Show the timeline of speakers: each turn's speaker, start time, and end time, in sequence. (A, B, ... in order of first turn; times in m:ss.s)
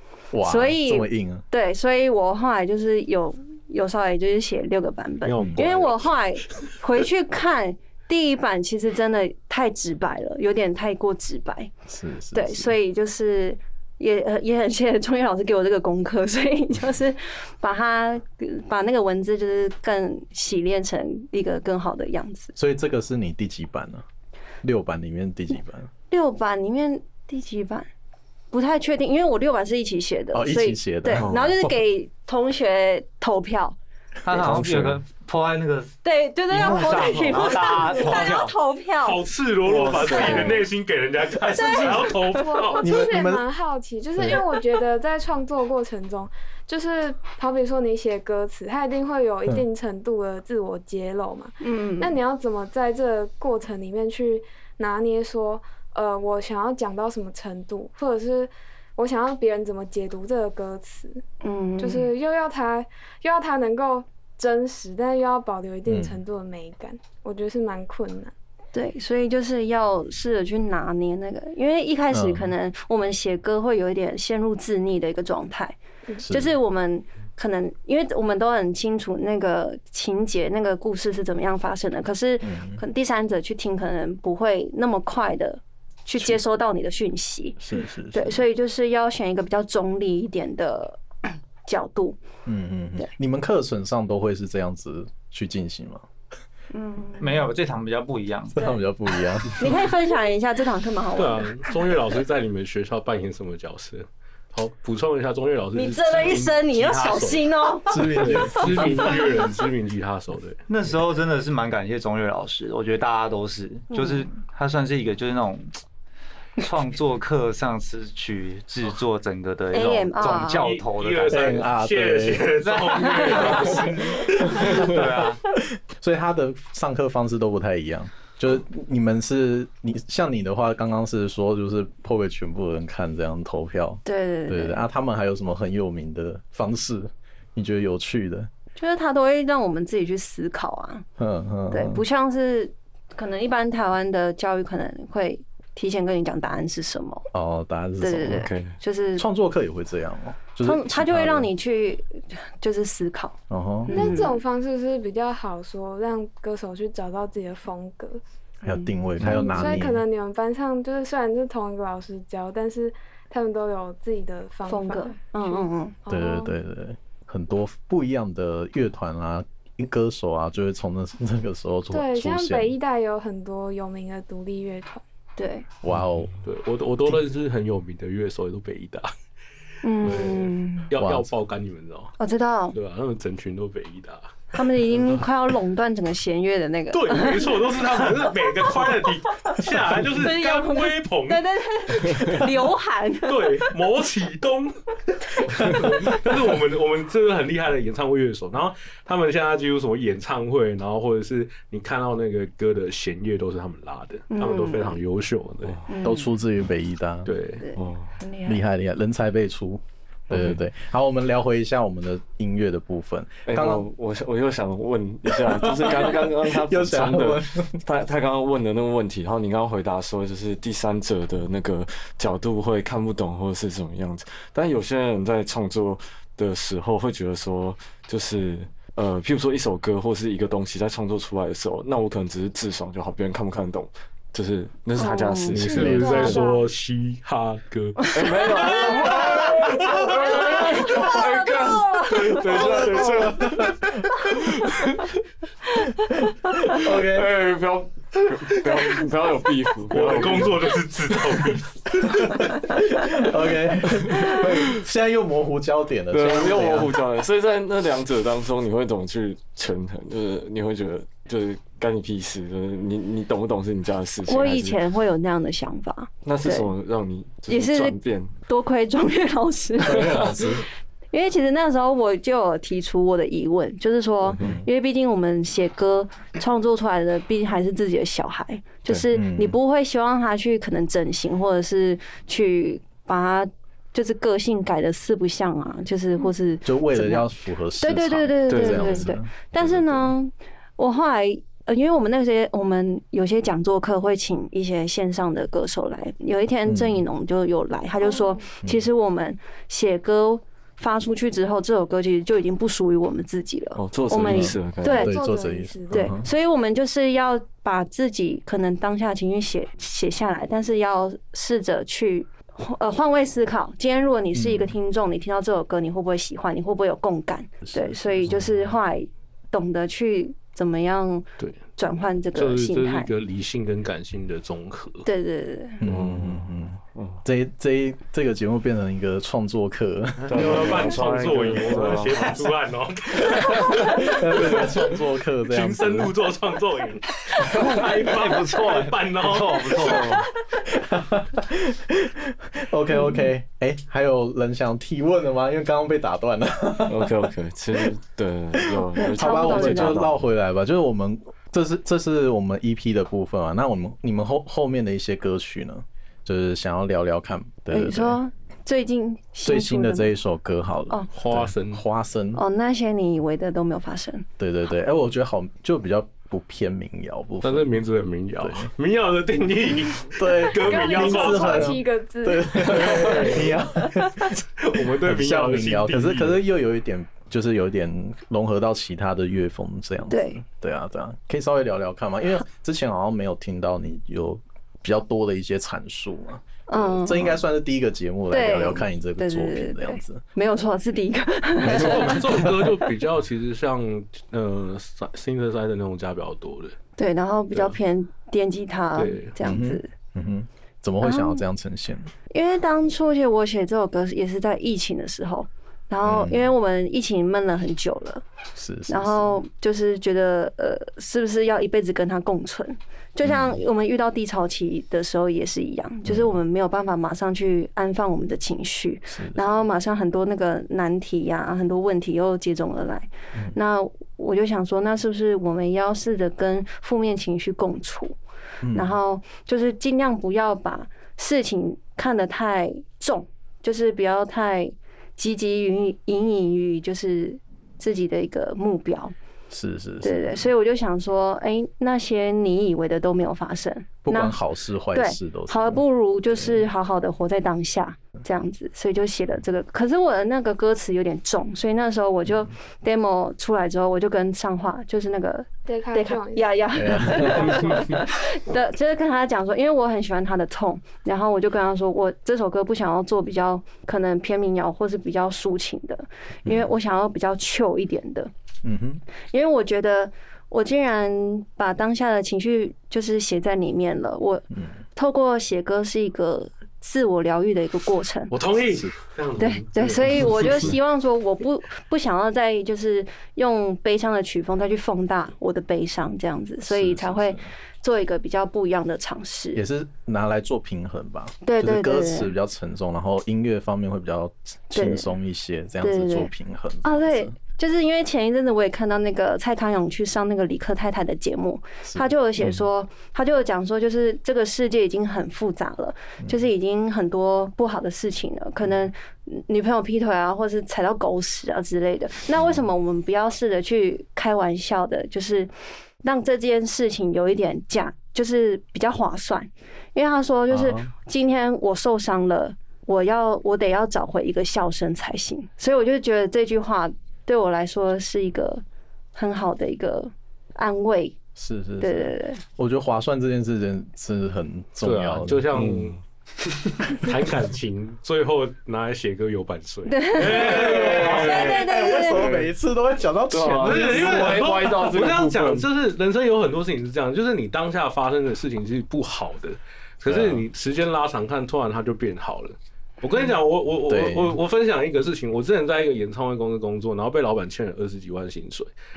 0:00.3-0:01.4 A
0:00.4-0:11.7 B
0:05.2-0:06.1 C
0:11.9-0:12.7 A
0:12.3-0:22.5 B
0:22.6-0:24.0 A
0:24.6-0:25.9 A
0:26.1-0:27.9 B
0:28.5-0:33.8 B
0:30.3-0:31.3 A
0:31.2-0:31.6 D
0:34.2-0:36.0 E
0:34.4-0:34.9 A
0:34.4-0:34.9 D
0:36.0-0:39.2 B
0:36.5-0:38.5 E
0:39.0-0:42.9 C
0:39.6-0:40.6 D
0:39.9-0:40.6 B
0:41.5-0:42.1 B
0:41.6-1:01.2 F
0:42.8-0:43.4 A
0:51.6-0:52.2 B
1:01.4-1:02.1 B
1:01.8-1:08.3 F
1:05.8-1:06.2 A
1:08.7-1:15.8 B
1:12.1-1:12.5 A
1:16.2-1:16.5 A
1:16.3-1:27.6 B
1:22.4-1:22.8 A
1:27.6-1:28.4 A
1:28.1-1:31.0 B
1:31.6-1:32.2 B
1:32.4-1:36.0 A
1:36.7-1:37.3 B
1:37.2-1:38.6 E
1:38.5-1:39.7 A
1:39.5-1:41.7 B
1:41.2-1:50.6 C
1:45.7-1:49.1 B
1:47.9-1:49.3 A
1:50.7-1:55.8 E
1:53.9-1:54.2 B
1:56.6-2:01.7 E
1:59.7-2:00.7 B
2:00.5-2:04.8 C
2:01.3-2:02.5 A
2:02.6-2:05.4 E
2:03.7-2:05.0 A
2:05.7-2:18.5 A
2:14.0-2:14.8 B
2:18.8-2:21.0 B
2:21.2-2:22.0 A
2:21.7-2:27.2 B
2:27.3-2:28.5 A
2:28.0-2:29.3 B
2:28.3-2:28.7 D
2:29.2-2:31.5 A
2:30.6-2:34.4 B
2:33.5-2:34.0 A
2:33.9-2:38.2 F
2:38.6-2:39.8 B
2:38.6-2:40.0 A
2:39.4-2:46.5 F
2:44.7-2:46.0 B
2:46.1-2:52.7 A
2:51.9-2:55.0 F
2:55.4-2:55.6 B
2:55.8-2:56.3 A
2:56.4-2:59.1 C
2:59.8-3:00.9 B
3:00.0-3:02.1 C
3:00.9-3:01.3 A
3:02.2-3:02.8 B
3:02.7-3:04.4 C
3:04.5-3:08.7 B
3:06.9-3:12.4 C
3:10.1-3:13.7 B
3:13.2-3:25.8 C
3:24.3-3:25.0 B
3:25.9-3:26.3 B
3:26.0-3:27.3 A
3:27.2-3:27.7 C
3:27.6-3:28.6 B
3:27.8-3:28.2 D
3:28.4-3:33.9 A
3:30.3-3:30.6 D
3:33.5-3:56.4 D
3:35.3-3:37.8 A
3:55.0-3:56.7 F
3:55.0-3:56.4 B
3:55.5-4:00.0 C
3:58.1-4:03.8 D
3:58.2-4:02.4 B
4:00.1-4:01.4 F
4:02.1-4:03.4 C
4:02.6-4:04.3 A
4:04.5-4:05.0 D
4:06.6-4:10.8 D
4:06.6-4:07.3 A
4:09.9-4:12.0 C
4:12.0-4:17.0 A
4:16.1-4:24.8 D
4:24.3-4:26.7 B
4:26.2-4:28.3 D
4:27.5-4:30.5 B
4:29.9-4:30.6 A
4:29.9-4:30.6 D
4:31.1-5:05.1 B
4:34.4-4:34.6 A
4:39.1-4:39.6 A
4:46.6-4:50.1 A
4:48.5-4:49.1 D
4:56.6-4:57.0 A
4:58.0-4:58.5 F
5:03.8-5:05.1 D
5:04.2-5:06.3 A
5:05.0-5:06.1 F
5:05.9-5:23.1 B
5:14.3-5:14.8 A
5:17.6-5:18.6 A
5:22.3-5:25.0 C
5:25.0-5:25.8 B
5:25.8-5:31.1 A
5:25.8-5:27.2 D
5:30.2-5:34.8 C
5:30.3-5:32.5 D
5:33.5-5:36.1 A
5:35.4-5:40.2 C
5:37.4-5:40.2 E
5:39.8-5:40.2 D
5:40.7-5:47.3 A
5:42.9-5:43.3 B
5:46.9-5:50.2 D
5:48.6-5:58.2 A
5:49.0-5:50.0 B
5:57.7-6:00.1 B
5:59.4-6:02.4 A
6:01.1-6:01.8 C
6:02.4-6:04.3 B
6:04.4-6:07.8 A
6:07.4-6:11.8 C
6:08.4-6:08.7 A
6:10.1-6:30.2 A
6:10.5-6:13.5 F
6:12.5-6:13.6 C
6:14.4-6:16.4 C
6:20.1-6:20.4 B
6:26.7-6:27.4 B
6:28.3-6:32.7 B
6:31.6-6:32.6 A
6:31.6-6:36.8 C
6:37.0-6:39.9 B
6:39.0-6:39.3 C
6:39.4-6:42.1 A
6:41.0-6:41.4 B
6:42.3-6:48.2 B
6:46.0-6:46.5 A
6:48.5-6:49.4 A
6:48.9-7:08.2 B
6:53.2-6:53.6 A
6:56.0-6:56.4 A
6:59.1-6:59.4 A
7:08.6-7:09.0 A
7:08.7-7:19.1 B
7:19.5-7:20.5 A
7:20.0-7:24.4 B
7:24.0-7:25.8 A
7:24.9-7:48.3 B
7:35.6-7:36.5 F
7:36.8-7:37.8 A
7:48.6-7:49.0 A
7:49.3-7:58.3 B
7:58.3-8:00.7 C
7:58.6-7:58.9 A
7:59.4-8:09.6 B
8:06.6-8:07.5 A
8:09.5-8:17.4 A
8:11.4-8:12.3 B
8:14.7-8:15.1 B
8:15.8-8:16.3 B
8:16.8-8:35.5 B
8:21.9-8:22.6 A
8:36.0-8:48.6 B
8:40.5-8:40.9 A
8:49.1-8:51.2 B
8:51.4-8:55.6 A
8:51.8-8:52.4 B
8:54.8-8:56.0 C
8:55.5-8:56.0 D
8:56.7-9:02.5 C
8:59.9-9:02.2 B
9:00.3-9:04.6 A
9:00.8-9:01.4 D
9:03.3-9:05.6 D
9:03.6-9:18.7 C
9:10.0-9:10.4 A
9:13.9-9:14.4 A